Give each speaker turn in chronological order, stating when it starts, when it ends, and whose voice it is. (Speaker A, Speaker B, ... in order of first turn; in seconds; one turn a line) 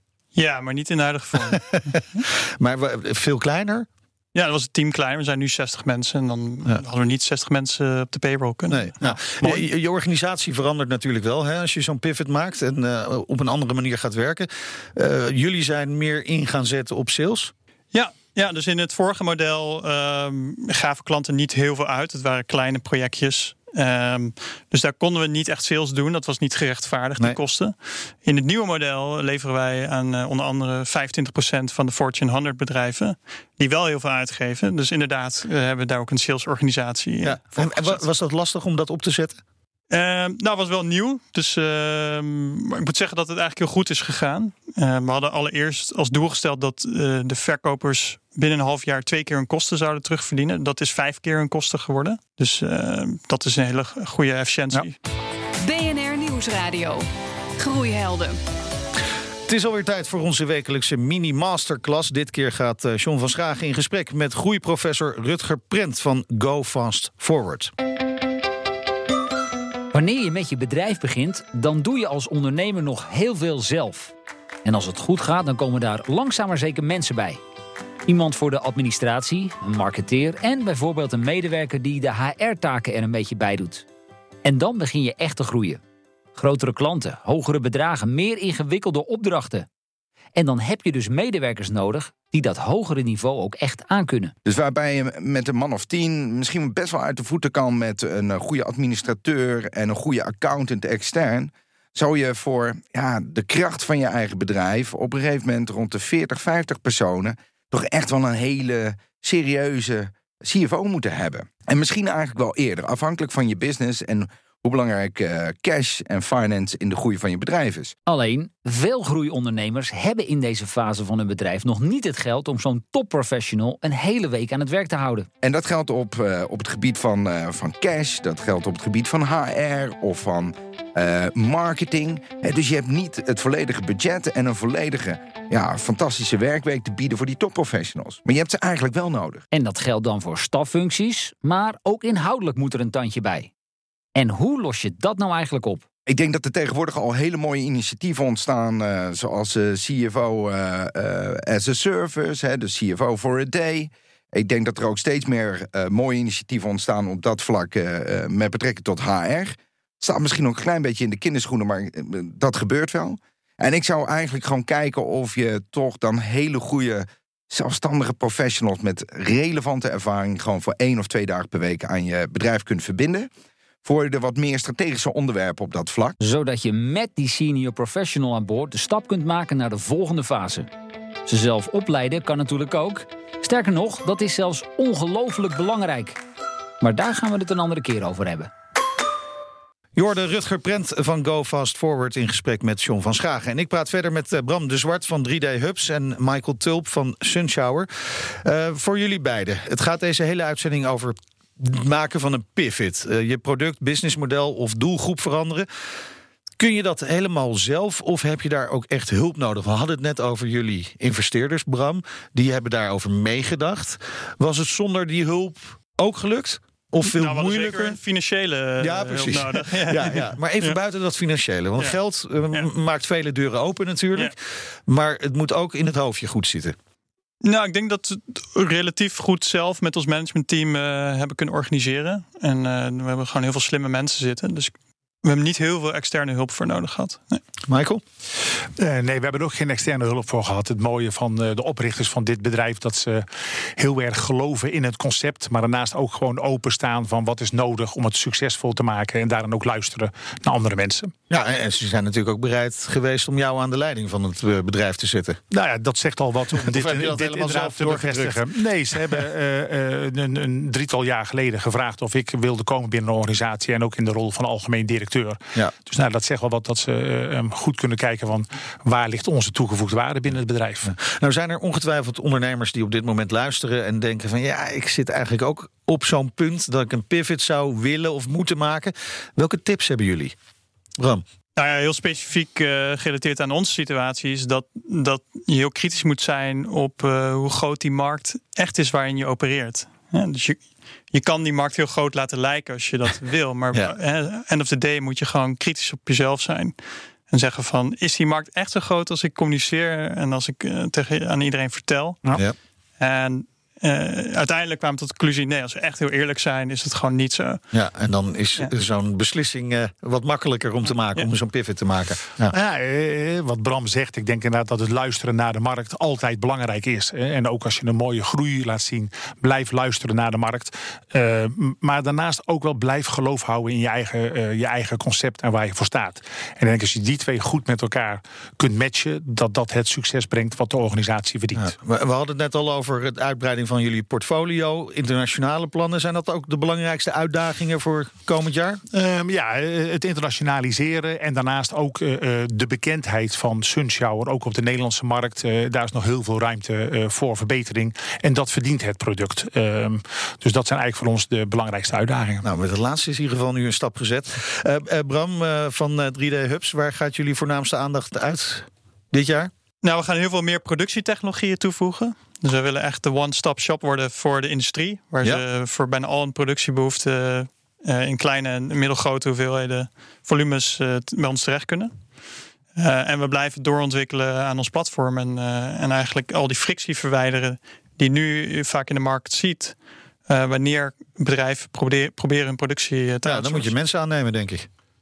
Speaker A: 0.3-2.0
Speaker B: 1.5-3.9
Speaker A: 4.3-9.1
Speaker B: 8.7-17.5
Speaker A: 17.9-38.0
Speaker B: 37.2-39.4
Speaker A: 39.9-55.0
Speaker C: 55.6-58.4
Speaker B: 59.5-67.7
Speaker D: 69.9-74.1
Speaker D: 74.6-77.4
Speaker D: 78.1-83.9
Speaker D: 84.4-85.8
Speaker D: 86.3-89.7
Speaker D: 90.3-94.3
Speaker E: 94.5-118.0
Speaker D: 118.1-125.3
Speaker E: 125.4-139.4
Speaker D: 139.5-143.5
Speaker D: 144.1-145.8
Speaker E: 146.1-173.3
Speaker E: 173.8-176.2
Speaker D: 176.2-180.7
Speaker D: 181.3-186.2
Speaker D: 186.8-188.5
Speaker B: 189.9-205.7
Speaker B: 206.6-218.0
Speaker A: 217.0-220.8
Speaker B: 218.8-224.3
Speaker B: 224.9-226.8
Speaker A: 227.4-237.4
Speaker B: 237.7-238.0
Speaker F: 238.8-251.1
Speaker B: 251.3-255.4
Speaker F: 255.5-270.9
Speaker B: 256.5-258.4
Speaker B: 270.9-280.3
Speaker B: 281.0-281.2
Speaker A: 281.6-296.8
Speaker A: 297.3-302.2
Speaker A: 303.0-307.6
Speaker B: 307.7-312.6
Speaker F: 312.5-331.7
Speaker B: 331.6-338.8
Speaker F: 338.9-352.4
Speaker B: 352.4-359.5
Speaker A: 359.8-372.0
Speaker A: 372.8-383.7
Speaker B: 383.2-384.7